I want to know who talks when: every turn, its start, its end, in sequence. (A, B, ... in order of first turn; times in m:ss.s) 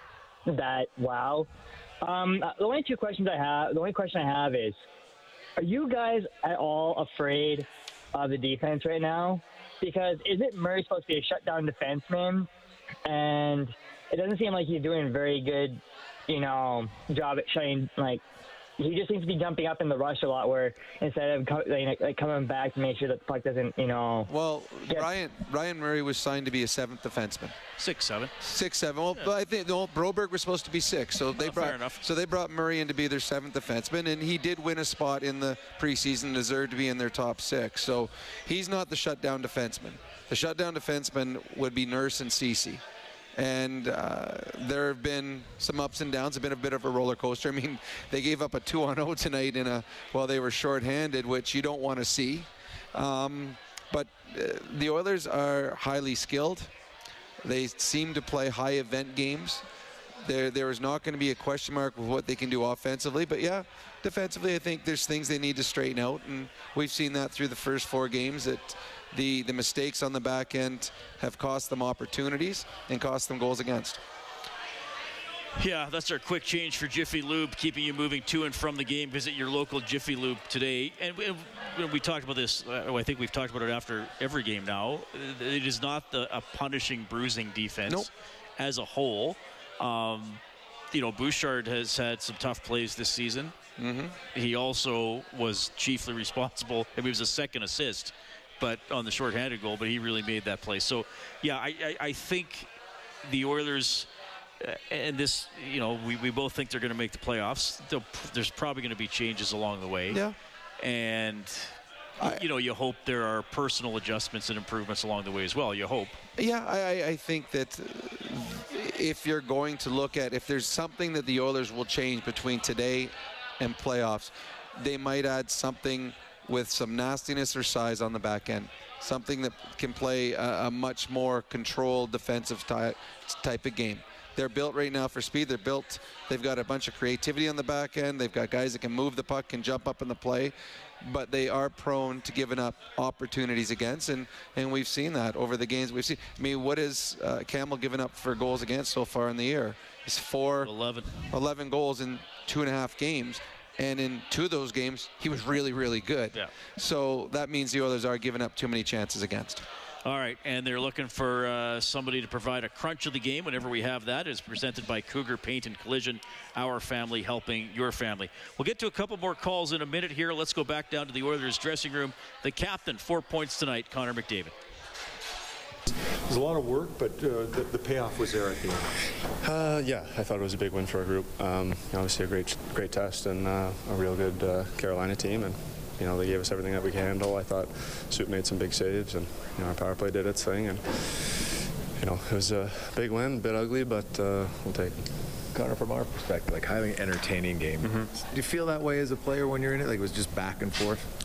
0:00.5-0:01.5 A
0:02.0-0:04.8 A
0:05.6-0:12.5 A
0:13.0-0:18.2 A
0:18.8-0:24.3 A
0:24.3-0:27.6 B
0:27.8-0:28.3 C
0:28.4-0:42.8 B
0:31.4-0:32.0 C
0:43.4-0:56.7 B
0:57.4-0:59.6 B
1:00.2-1:14.0 B
1:15.6-1:30.4 C
1:30.9-1:33.5 C
1:33.8-1:34.1 B
1:34.3-1:42.7 C
1:43.2-1:44.1 C
1:44.6-1:50.2 C
1:50.8-1:56.2 C
1:56.4-2:30.7 B
2:30.6-2:31.1 C
2:31.3-2:39.6 B
2:40.0-2:54.5 C
2:56.2-2:58.9 D
2:59.4-3:11.5 E
3:12.0-3:15.2 E
3:15.5-3:21.0 F
3:17.8-3:18.1 E